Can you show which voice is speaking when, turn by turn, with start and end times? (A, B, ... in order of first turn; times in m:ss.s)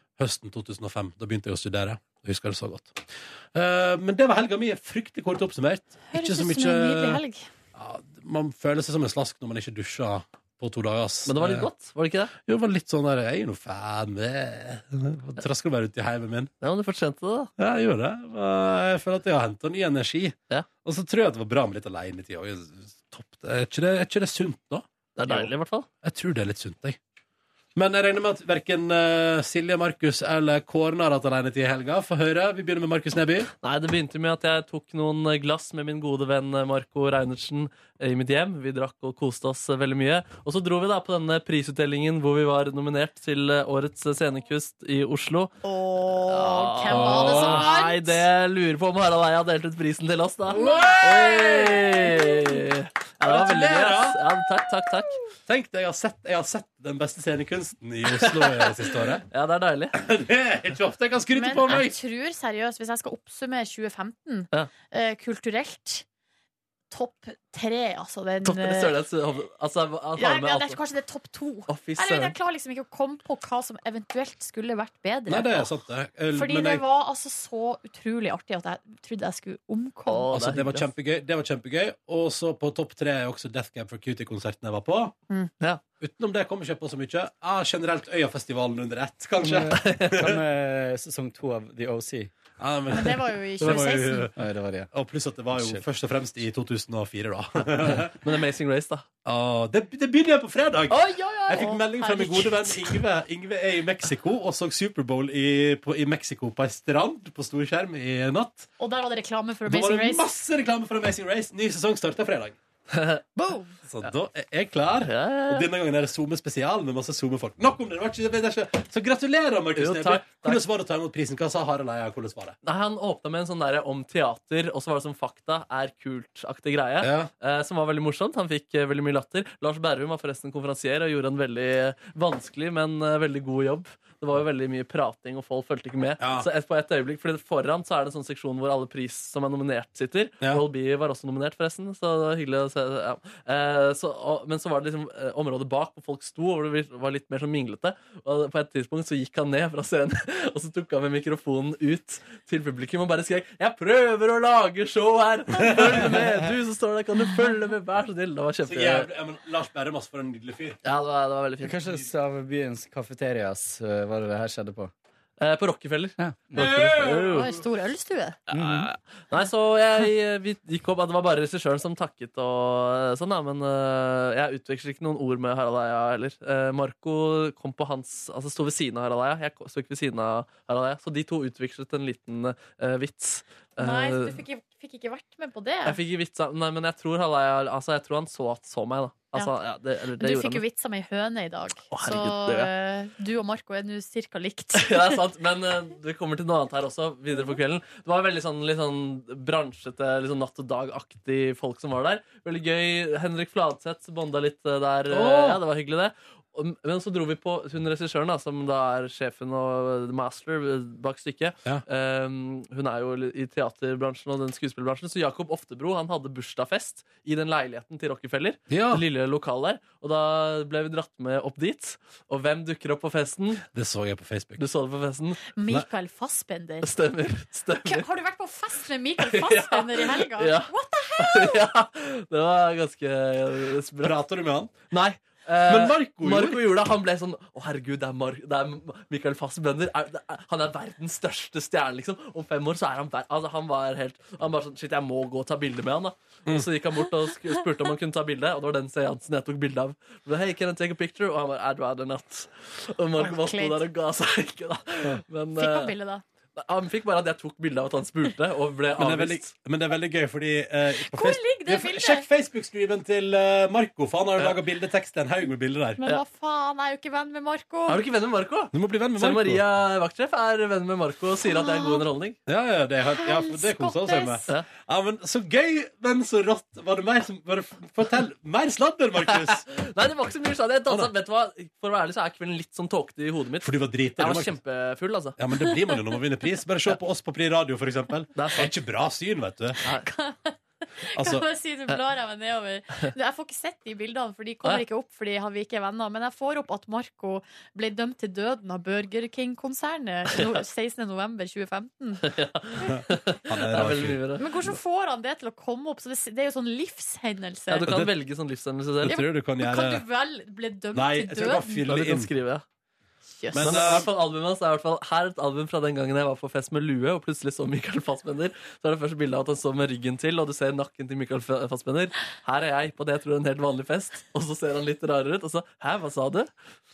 0:00.2-0:07.2 A
0:06.1-0:07.5 B
0:07.8-0:11.7 A
0:11.3-0:12.3 C
0:12.4-0:16.5 A
0:16.6-0:17.5 C
0:17.6-0:25.5 A
0:25.2-0:25.9 C
0:26.0-0:27.0 A
0:27.8-0:33.5 A
0:33.6-0:45.5 C
0:45.6-0:48.2 B
0:46.3-0:55.2 C
0:46.9-0:47.7 A
0:50.5-0:52.0 A
0:50.6-0:51.0 B
0:53.2-0:54.2 A
0:55.5-0:59.2 A
0:58.1-0:58.8 C
0:59.3-1:00.0 C
1:00.0-1:02.0 A
1:01.4-1:06.0 B
1:06.9-1:08.9 B
1:08.4-1:10.8 C
1:10.2-1:15.7 B
1:11.7-1:12.4 C
1:15.3-1:16.8 A
1:16.3-1:20.3 B
1:20.1-1:20.9 C
1:20.3-1:25.2 A
1:26.0-1:30.4 A
1:29.4-1:32.3 D
1:29.7-1:30.2 C
1:32.6-1:34.4 A
1:32.9-1:34.3 B
1:34.4-1:34.9 D
1:34.9-1:38.2 A
1:35.5-1:35.8 D
1:38.2-1:39.1 C
1:39.2-1:48.7 A
1:41.0-1:42.9 B
1:48.8-1:50.2 B
1:49.7-1:52.6 A
1:52.9-1:53.2 C
1:53.4-1:53.8 B
1:53.9-2:02.6 A
1:55.0-1:55.7 C
1:59.8-2:00.6 C
2:02.6-2:39.1 C
2:07.0-2:07.3 A
2:16.2-2:16.5 A
2:35.6-2:36.3 A
2:38.6-2:40.8 A
2:40.8-2:41.8 C
2:41.6-2:44.9 D
2:45.4-2:47.5 C
2:46.2-2:47.0 D
2:46.6-2:47.5 A
2:47.2-2:48.4 B
2:48.5-3:04.4 C
2:48.5-2:48.9 D
3:03.8-3:06.0 B
3:05.9-3:10.6 C
3:10.2-3:15.2 B
3:11.9-3:12.7 C
3:14.7-3:43.7 C
3:25.1-3:25.6 A
3:38.7-3:39.0 A
3:43.7-3:44.6 A
3:44.6-3:45.4 C
3:45.5-3:46.9 B
3:46.8-3:48.1 C
3:47.8-3:51.6 B
3:49.2-3:54.2 C
3:54.0-3:54.8 A
3:54.9-4:15.9 C
3:55.7-3:56.6 A
4:13.2-4:13.8 B
4:15.6-4:16.2 B
4:16.6-4:19.5 C
4:19.0-4:26.0 A
4:21.0-4:22.3 B
4:26.0-4:28.0 B
4:27.9-4:32.4 C
4:28.7-4:29.6 A
4:31.5-4:32.0 B
4:32.5-4:39.7 A
4:33.2-4:34.5 B
4:39.3-4:45.4 C
4:43.6-4:44.6 A
4:45.4-4:49.8 A
4:48.4-4:48.7 C
4:49.9-5:02.2 B
4:51.2-4:51.5 A
5:02.2-5:04.5 C
5:02.9-5:04.2 A
5:04.4-5:07.9 B
5:07.7-5:09.2 C
5:07.9-5:08.2 A
5:09.0-5:10.0 A
5:09.1-5:11.7 B
5:10.9-5:12.3 A
5:11.7-5:12.6 C
5:13.3-5:14.0 B
5:13.5-5:14.1 A
5:13.6-5:26.5 C